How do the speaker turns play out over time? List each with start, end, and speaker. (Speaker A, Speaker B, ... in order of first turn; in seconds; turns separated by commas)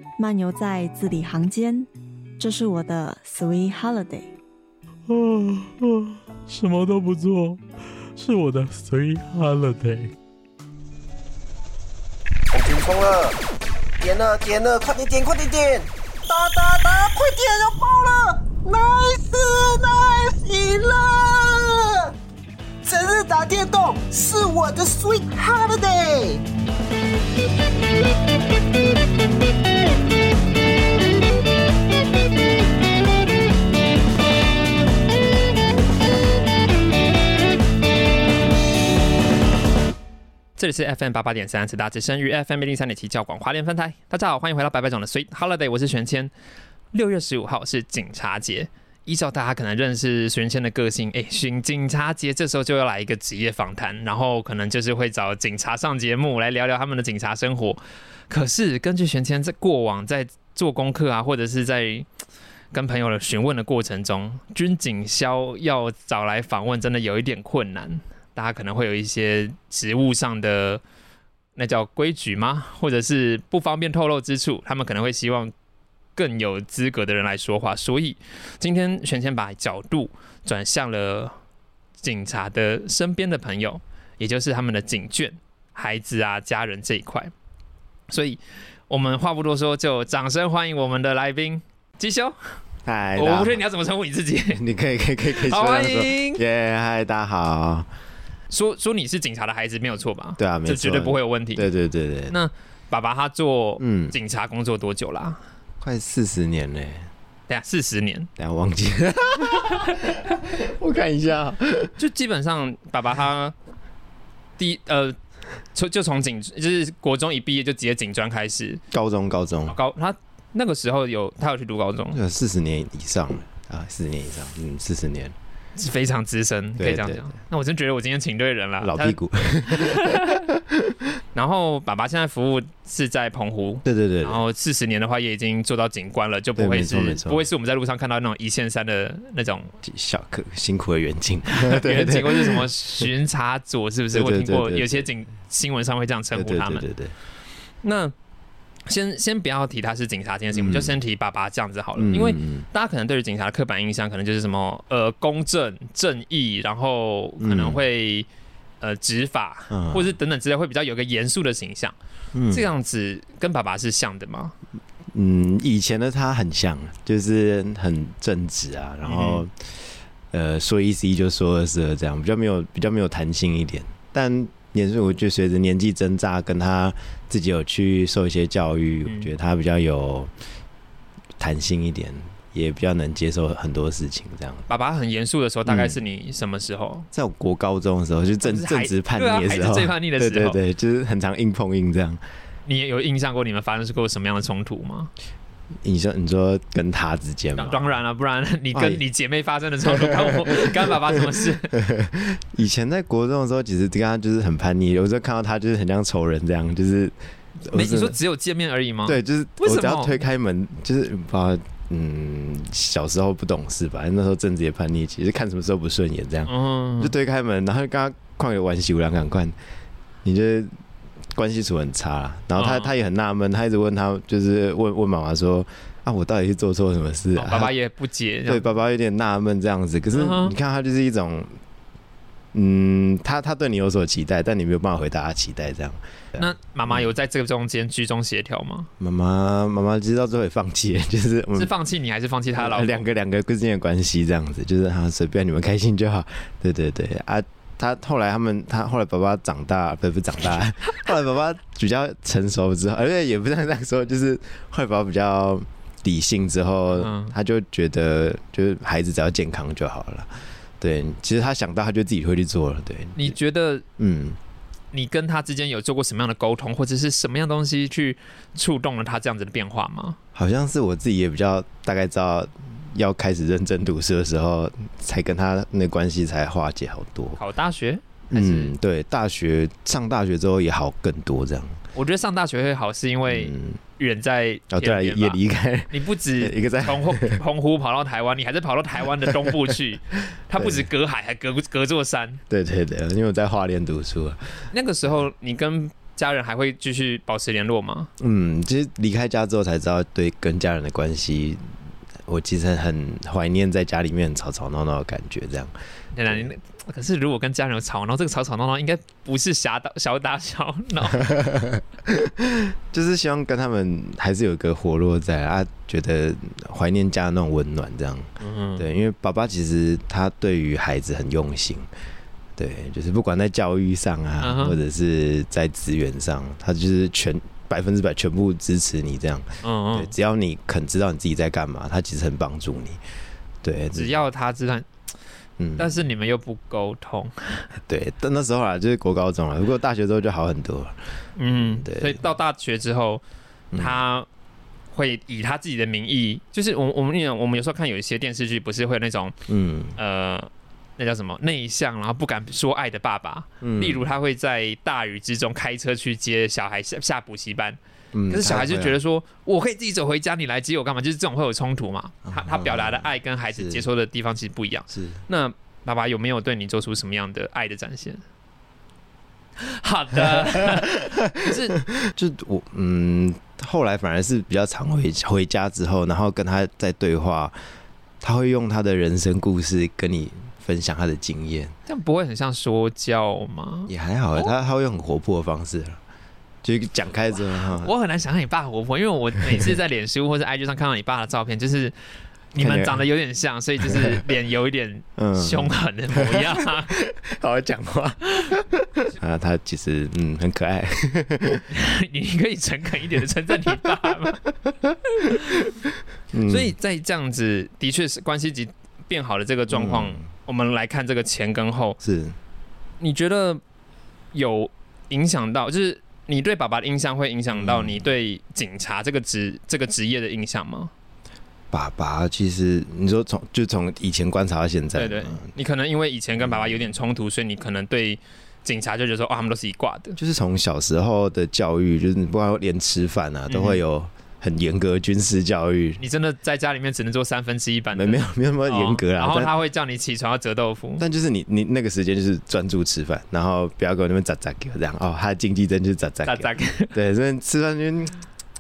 Speaker A: 0.2-4.3, Speaker B: 5.1-7.6, Speaker B: 8.1-10.1, Speaker C: 12.5-13.4, Speaker C: 14.0-22.1, Speaker C: 22.8-26.4, Speaker D: 40.6-46.3, Speaker D: 46.9-62.0, Speaker D: 62.7-70.8, Speaker D: 71.5-75.5, Speaker D: 76.2-81.3, Speaker D: 82.0-87.3, Speaker D: 88.1-92.6, Speaker E: 92.8-93.6, Speaker D: 93.2-94.6, Speaker E: 94.5-97.9, Speaker D: 95.3-96.4, Speaker D: 98.5-101.7, Speaker E: 100.4-102.4, Speaker D: 102.3-105.4, Speaker E: 103.8-104.1, Speaker E: 105.8-107.1, Speaker D: 107.5-108.3, Speaker E: 108.4-111.9, Speaker D: 112.0-113.5, Speaker D: 114.6-115.2, Speaker D: 115.7-118.8, Speaker E: 118.9-119.8, Speaker D: 119.7-122.2, Speaker E: 122.1-125.3, Speaker D: 125.8-130.4, Speaker E: 126.8-127.2, Speaker E: 128.8-130.9, Speaker D: 131.3-139.7, Speaker E: 133.8-134.4, Speaker E: 136.6-137.4, Speaker E: 139.8-143.1, Speaker D: 141.5-146.8, Speaker E: 144.1-145.1, Speaker E: 146.3-147.1, Speaker D: 147.8-148.1, Speaker D: 148.9-158.3, Speaker E: 150.5-150.9, Speaker E: 152.0-152.7, Speaker E: 157.4-157.8, Speaker D: 158.8-161.9, Speaker E: 159.7-160.1, Speaker E: 162.3-162.7, Speaker D: 162.5-164.5, Speaker E: 165.1-180.3, Speaker D: 169.0-169.4, Speaker D: 179.0-179.3, Speaker E: 181.4-184.7, Speaker D: 184.7-187.1, Speaker E: 185.7-186.0, Speaker E: 187.1-192.2, Speaker D: 188.4-190.6, Speaker D: 192.7-195.1, Speaker E: 195.8-197.8, Speaker D: 197.6-201.8, Speaker E: 198.7-199.0, Speaker E: 199.8-200.9, Speaker E: 201.7-208.2, Speaker D: 207.7-210.2, Speaker E: 209.0-219.6, Speaker D: 216.5-217.1, Speaker E: 220.2-220.7, Speaker E: 221.3-227.7, Speaker D: 222.6-222.9, Speaker D: 227.3-228.6, Speaker E: 228.5-231.6, Speaker D: 230.1-230.5, Speaker E: 232.5-237.1, Speaker D: 236.4-238.9, Speaker E: 239.0-241.7, Speaker D: 241.5-243.0, Speaker E: 242.5-263.4, Speaker D: 256.9-257.3, Speaker D: 263.1-263.8, Speaker E: 264.0-264.4, Speaker D: 264.9-270.2, Speaker E: 270.3-277.4, Speaker D: 277.4-278.7, Speaker E: 278.3-281.8, Speaker D: 281.9-285.4, Speaker E: 283.3-283.8, Speaker E: 284.7-287.4, Speaker D: 285.9-292.4, Speaker E: 290.6-290.9, Speaker E: 292.5-294.7, Speaker D: 294.7-298.1, Speaker E: 298.2-301.7, Speaker E: 302.2-305.7, Speaker D: 306.1-311.2, Speaker E: 311.1-321.9, Speaker D: 318.4-318.8, Speaker E: 322.6-333.0, Speaker D: 324.4-324.8, Speaker D: 329.6-330.1, Speaker E: 333.6-334.1, Speaker D: 333.9-334.9, Speaker E: 335.6-336.0, Speaker D: 335.8-337.7, Speaker E: 337.9-342.2, Speaker D: 341.4-343.2, Speaker E: 343.7-344.0, Speaker D: 343.8-344.3, Speaker D: 344.9-349.3, Speaker E: 349.5-349.9, Speaker D: 349.9-357.8, Speaker E: 353.6-354.1, Speaker E: 358.1-359.0, Speaker D: 358.3-368.2, Speaker E: 362.2-363.8, Speaker E: 364.9-365.2, Speaker D: 369.6-371.8, Speaker E: 370.1-371.3, Speaker E: 371.9-377.6, Speaker E: 378.2-381.7, Speaker D: 381.9-384.5, Speaker E: 383.9-386.0, Speaker E: 386.6-387.9, Speaker D: 387.5-391.9, Speaker D: 392.5-396.9, Speaker E: 392.6-393.0, Speaker E: 393.8-394.2, Speaker E: 395.2-401.7, Speaker D: 401.7-404.4, Speaker E: 404.5-405.6, Speaker D: 405.2-405.6, Speaker E: 406.3-406.7, Speaker D: 406.5-412.0, Speaker E: 409.7-410.2, Speaker E: 412.0-412.4, Speaker D: 413.0-413.6, Speaker D: 414.3-420.9, Speaker E: 417.6-418.0, Speaker E: 421.7-425.5, Speaker D: 424.9-430.2, Speaker E: 426.4-426.9, Speaker E: 430.2-436.0, Speaker D: 433.5-433.8, Speaker D: 436.0-441.0, Speaker E: 437.9-439.5, Speaker E: 441.0-448.2, Speaker D: 446.2-446.9